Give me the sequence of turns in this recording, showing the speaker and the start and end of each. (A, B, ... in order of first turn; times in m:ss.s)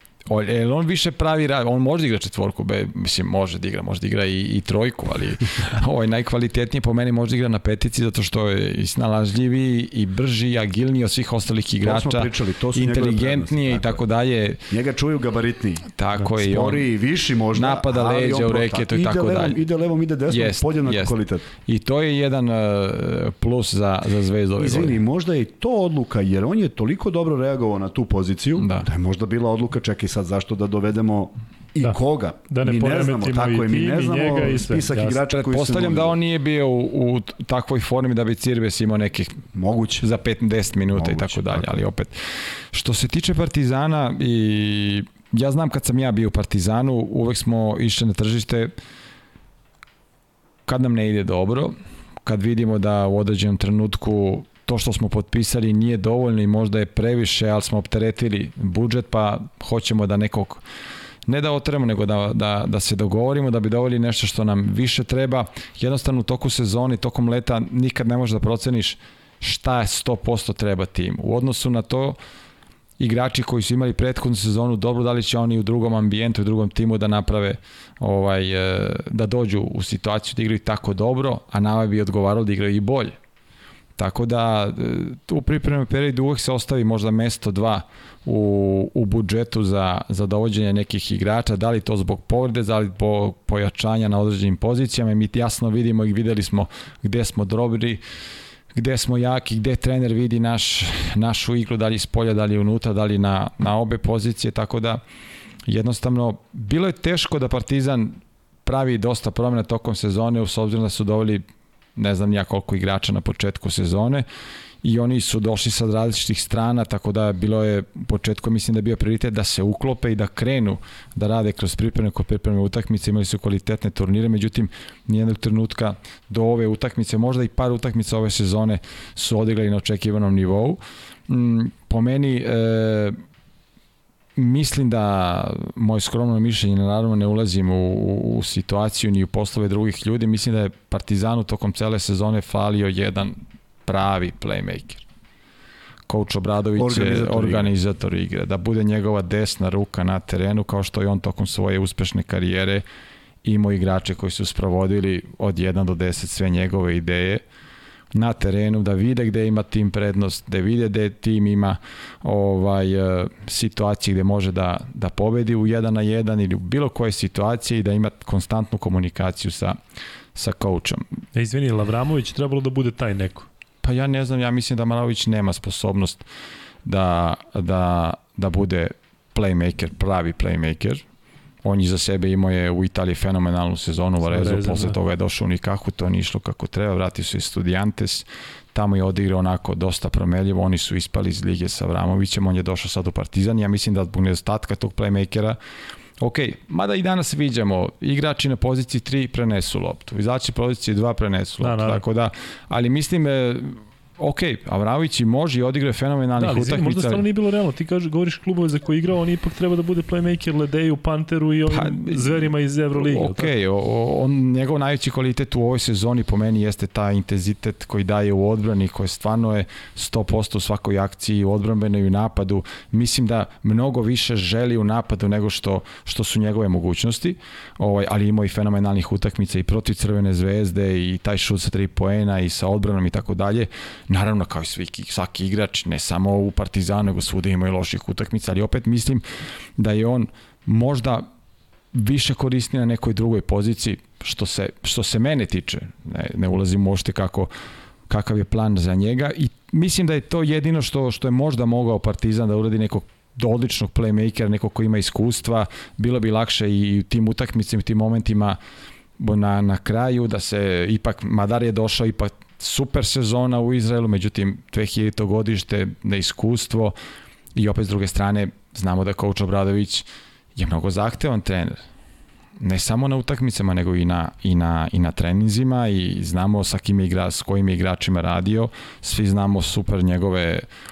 0:00.3-0:14.7 A
0:11.8-0:14.0 B
0:14.7-0:21.5 B
0:16.0-0:16.9 A
0:17.5-0:19.6 A
0:20.3-0:21.1 A
0:21.7-0:25.0 A
0:24.6-0:36.2 B
0:28.6-0:28.9 A
0:32.5-0:35.2 C
0:35.3-0:39.4 A
0:39.5-0:40.1 B
0:40.0-0:48.7 A
0:40.9-0:41.8 B
0:50.7-1:00.6 A
1:01.3-1:12.2 A
1:13.0-1:23.2 A
1:24.0-1:38.0 A
1:38.7-1:45.0 A
1:45.7-1:51.4 A
1:52.0-1:54.2 A
1:54.8-2:13.2 A
2:14.4-2:25.0 A
2:26.1-2:32.8 A
2:26.8-2:27.7 B
2:33.4-2:37.4 A
2:38.1-2:49.8 A
2:50.4-2:51.1 A
2:51.4-2:53.5 C
2:53.8-2:56.2 A
2:56.8-3:01.0 A
3:01.6-3:15.6 A
3:04.2-3:05.0 C
3:16.2-3:27.2 A
3:21.6-3:22.0 C
3:26.4-3:33.5 C
3:31.7-3:32.4 A
3:33.0-3:59.2 A
3:59.8-4:01.3 A
4:01.9-4:07.5 A
4:08.1-4:18.6 A
4:19.2-4:27.0 A
4:27.6-4:31.8 A
4:32.6-4:40.7 A